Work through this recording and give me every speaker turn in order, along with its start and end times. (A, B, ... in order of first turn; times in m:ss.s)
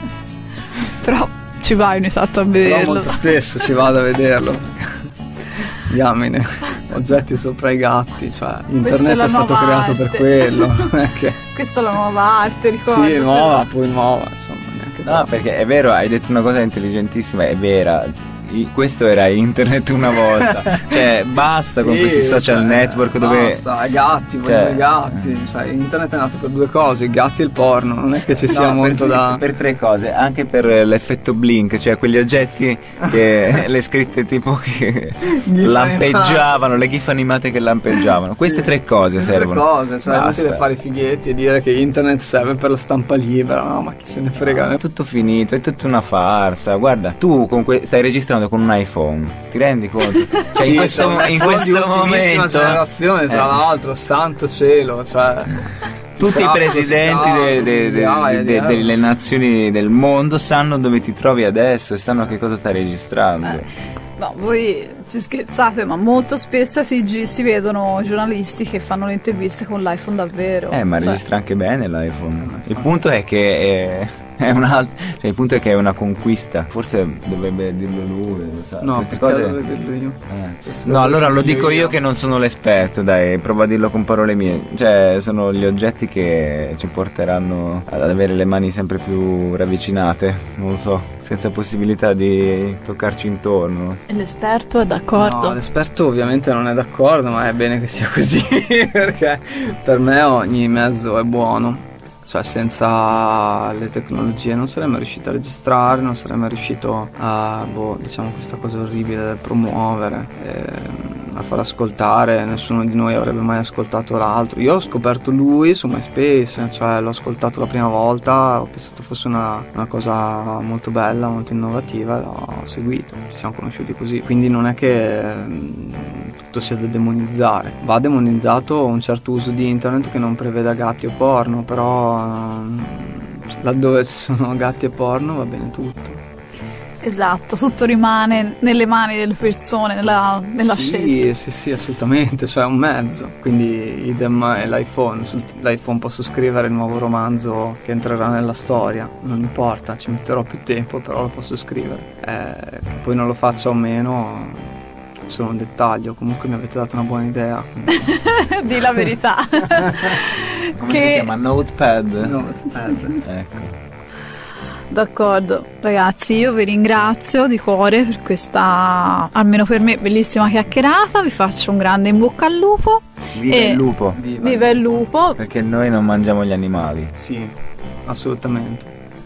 0:00.9-0:03.2 A
0:02.6-0:11.4 B
0:08.8-0:10.7 A
0:11.5-0:13.6 A
0:12.8-0:15.3 B
0:15.0-0:23.6 C
0:20.2-0:21.0 B
0:21.7-0:29.4 B
0:24.4-0:25.2 C
0:28.5-0:40.6 C
0:35.2-0:36.6 B
0:38.4-0:44.8 B
0:44.4-0:53.6 C
0:50.5-0:59.0 B
0:56.2-1:03.7 C
1:04.2-1:11.2 A
1:10.7-1:19.6 C
1:12.4-1:12.9 B
1:18.8-1:22.0 B
1:20.3-1:34.0 C
1:34.1-1:35.6 A
1:35.1-2:16.2 B
2:17.0-2:21.2 A
2:20.6-2:34.7 B
2:35.3-2:38.2 B
2:38.0-2:41.3 A
2:40.7-2:42.4 C
2:42.2-2:43.2 B
2:43.2-2:43.7 C
2:44.9-2:53.8 A
2:53.3-2:54.2 C
2:54.1-2:55.0 B
2:54.4-2:55.4 A
2:55.4-2:57.1 C
2:57.1-2:57.5 B
2:58.0-2:58.9 B